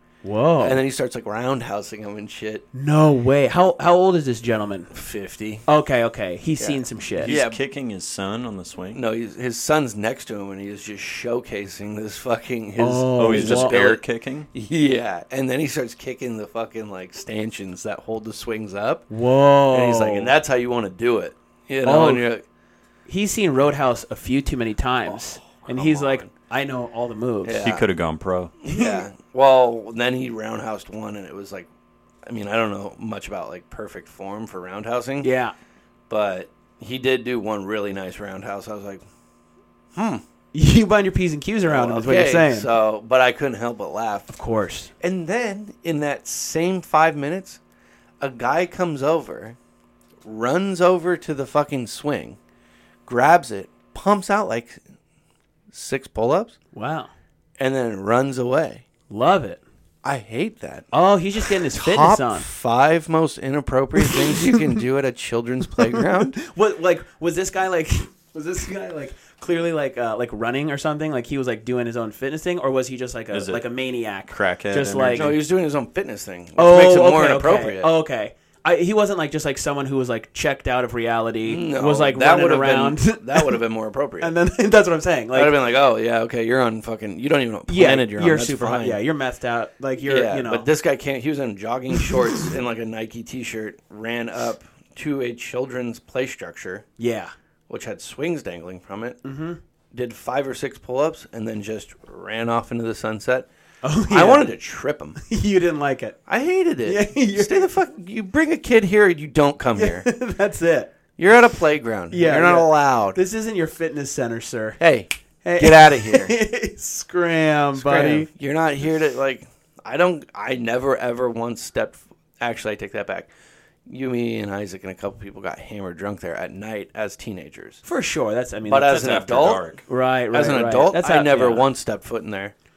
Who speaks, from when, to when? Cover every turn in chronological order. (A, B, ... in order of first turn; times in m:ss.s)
0:00.2-0:00.8 A
0:00.6-0:02.6 B
0:02.7-0:04.9 A
0:04.9-0:05.6 B
0:05.6-0:07.3 A
0:06.6-0:07.6 B
0:07.2-0:09.0 C
0:08.9-0:19.1 B
0:12.8-0:13.8 A
0:13.2-0:14.5 C
0:19.1-0:20.3 A
0:19.7-0:22.4 B
0:21.8-0:22.2 A
0:23.1-0:27.6 A
0:25.1-0:26.3 B
0:27.4-0:27.8 B
0:27.6-0:28.5 C
0:28.6-0:31.7 B
0:28.7-0:29.0 A
0:32.2-0:35.3 B
0:35.2-0:35.5 A
0:36.1-0:39.0 B
0:39.9-0:40.2 B
0:40.5-0:42.7 A
0:41.6-0:44.3 B
0:44.3-0:44.9 A
0:45.0-0:47.6 B
0:48.2-0:49.6 B
0:50.2-0:52.4 B
0:53.0-0:54.8 B
0:55.7-0:56.5 B
0:56.7-0:57.1 A
0:57.6-0:58.8 B
0:59.1-0:59.6 A
1:00.0-1:00.9 B
1:00.9-1:02.5 A
1:01.4-1:06.4 B
1:04.1-1:04.5 A
1:05.9-1:15.4 A
1:13.3-1:13.6 C
1:14.3-1:15.4 C
1:15.1-1:17.9 B
1:16.6-1:23.6 A
1:21.4-1:24.3 B
1:24.2-1:25.6 A
1:25.3-1:29.0 B
1:27.7-1:30.7 A
1:30.0-1:36.8 B
1:32.0-1:32.3 A
1:37.0-1:37.3 A
1:37.7-1:39.2 B
1:39.2-1:39.6 A
1:39.9-1:43.5 B
1:43.8-1:44.5 A
1:44.1-1:45.2 B
1:45.2-1:46.2 A
1:46.3-1:50.1 B
1:46.8-1:47.7 A
1:49.7-1:50.9 A
1:51.2-1:53.2 B
1:52.1-1:54.8 A
1:54.8-1:56.3 B
1:55.4-1:58.3 A
1:57.7-2:03.3 B
2:03.8-2:07.8 B
2:07.8-2:09.2 A
2:08.7-2:09.8 B
2:08.9-2:09.8 C
2:09.9-2:11.7 A
2:10.3-2:12.5 B